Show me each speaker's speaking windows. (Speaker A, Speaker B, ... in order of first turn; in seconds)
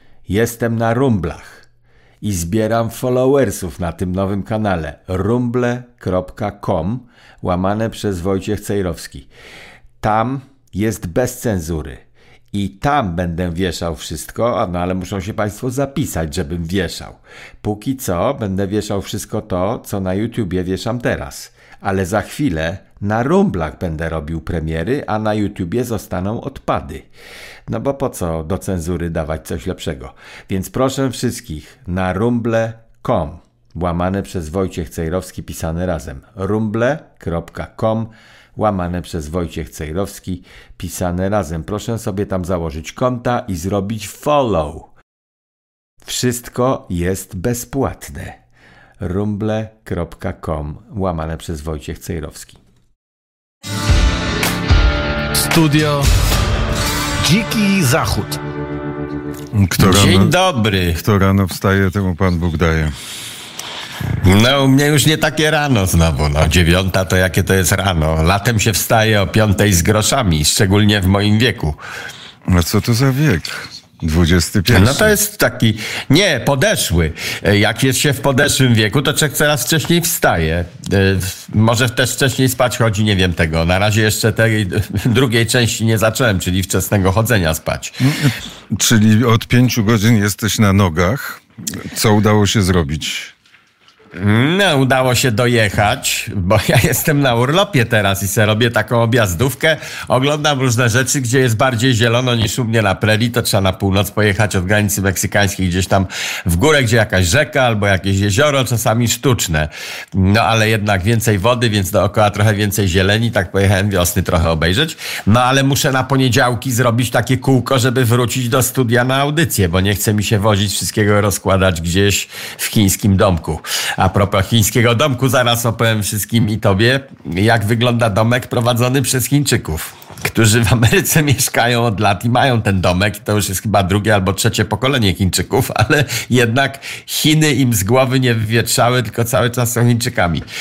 Speaker A: 0.3-1.7, 2.2-9.3, 10.0-27.1, 27.7-44.9, 46.0-48.4, 49.0-52.6, 59.8-61.0, 64.2-71.8, 74.7-88.0, 94.2-140.5
Speaker B: 55.3-56.1, 57.2-58.4
Speaker C: 59.5-60.3, 61.0-62.9, 72.5-75.2, 88.0-93.3